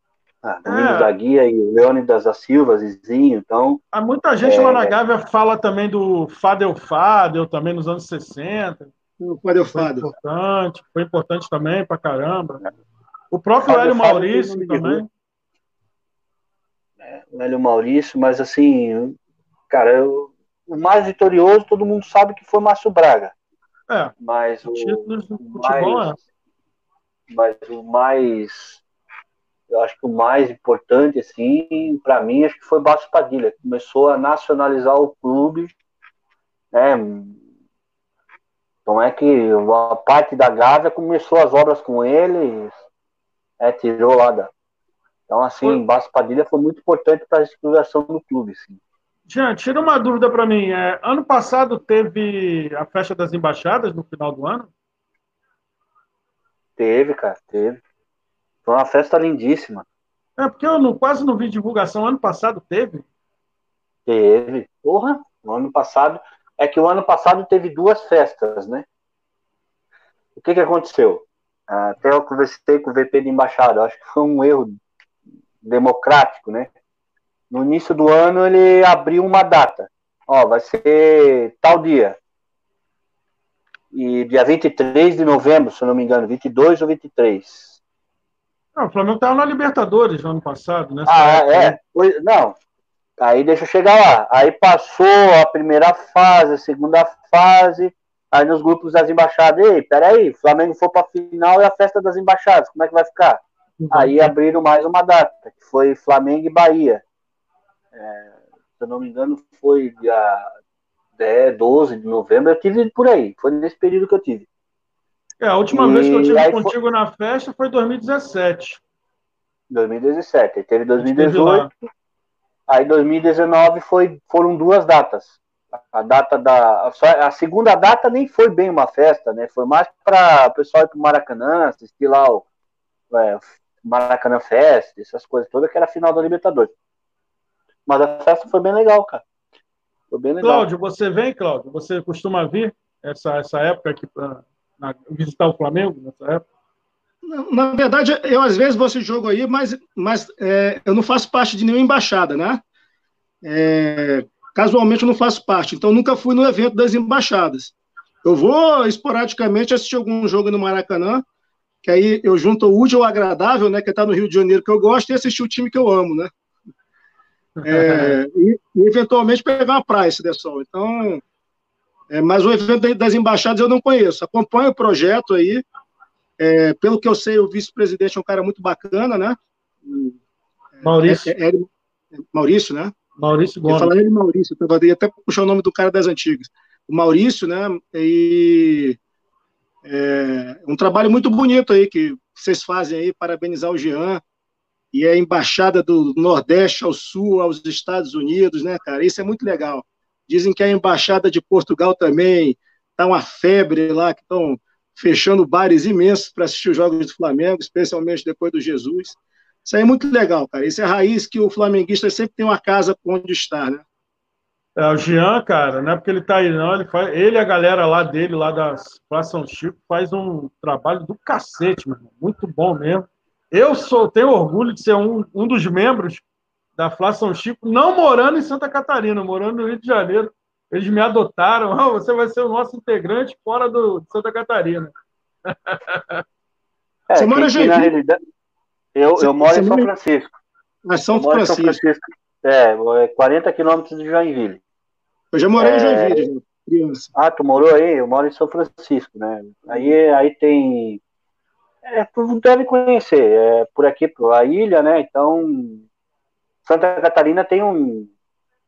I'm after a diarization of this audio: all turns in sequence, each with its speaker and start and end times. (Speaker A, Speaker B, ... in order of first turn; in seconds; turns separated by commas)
Speaker A: 0.4-3.8, Speaker B: 0.7-1.1, Speaker B: 3.9-8.9, Speaker A: 4.4-5.0, Speaker C: 9.2-10.1, Speaker B: 9.7-12.6, Speaker B: 13.3-15.1, Speaker A: 13.6-15.0, Speaker A: 17.0-19.2, Speaker A: 19.7-23.3, Speaker B: 23.9-24.1, Speaker A: 24.2-26.1, Speaker B: 24.6-26.2, Speaker A: 27.3-28.8, Speaker A: 29.7-35.7, Speaker A: 36.7-37.4, Speaker A: 38.9-42.8, Speaker A: 43.6-44.5, Speaker A: 45.3-48.8, Speaker B: 49.3-54.7, Speaker A: 56.8-57.8, Speaker A: 58.6-59.9, Speaker B: 60.4-63.0, Speaker A: 64.1-68.8, Speaker A: 70.4-74.8, Speaker A: 75.6-76.7, Speaker A: 77.5-82.2, Speaker A: 83.9-87.8, Speaker B: 88.8-91.8, Speaker A: 91.1-92.6, Speaker A: 93.2-107.0, Speaker B: 103.8-104.3, Speaker A: 107.9-110.5, Speaker A: 111.2-114.5, Speaker B: 115.4-118.8, Speaker A: 115.7-116.7, Speaker A: 119.7-121.9, Speaker B: 121.0-121.7, Speaker A: 122.7-125.4, Speaker A: 125.9-132.4, Speaker A: 133.1-136.7, Speaker A: 137.9-139.2, Speaker A: 140.1-140.7, Speaker B: 140.4-146.4, Speaker C: 147.2-152.6, Speaker C: 153.4-161.2, Speaker C: 161.8-166.3, Speaker B: 167.6-168.2, Speaker C: 167.7-171.2, Speaker C: 172.1-175.6, Speaker C: 176.4-180.2, Speaker C: 180.8-182.9, Speaker B: 180.8-181.3, Speaker B: 183.2-183.9, Speaker C: 183.7-189.0, Speaker C: 189.8-194.2, Speaker C: 194.9-213.8, Speaker B: 214.8-226.2, Speaker B: 226.8-234.9, Speaker B: 235.5-236.2, Speaker A: 237.1-238.2, Speaker C: 237.2-237.9, Speaker A: 238.9-240.3, Speaker C: 239.2-239.9, Speaker C: 240.9-241.8, Speaker A: 241.1-244.6, Speaker C: 245.3-247.1, Speaker A: 245.6-246.3, Speaker A: 247.2-251.0, Speaker A: 251.8-255.8, Speaker A: 256.6-258.1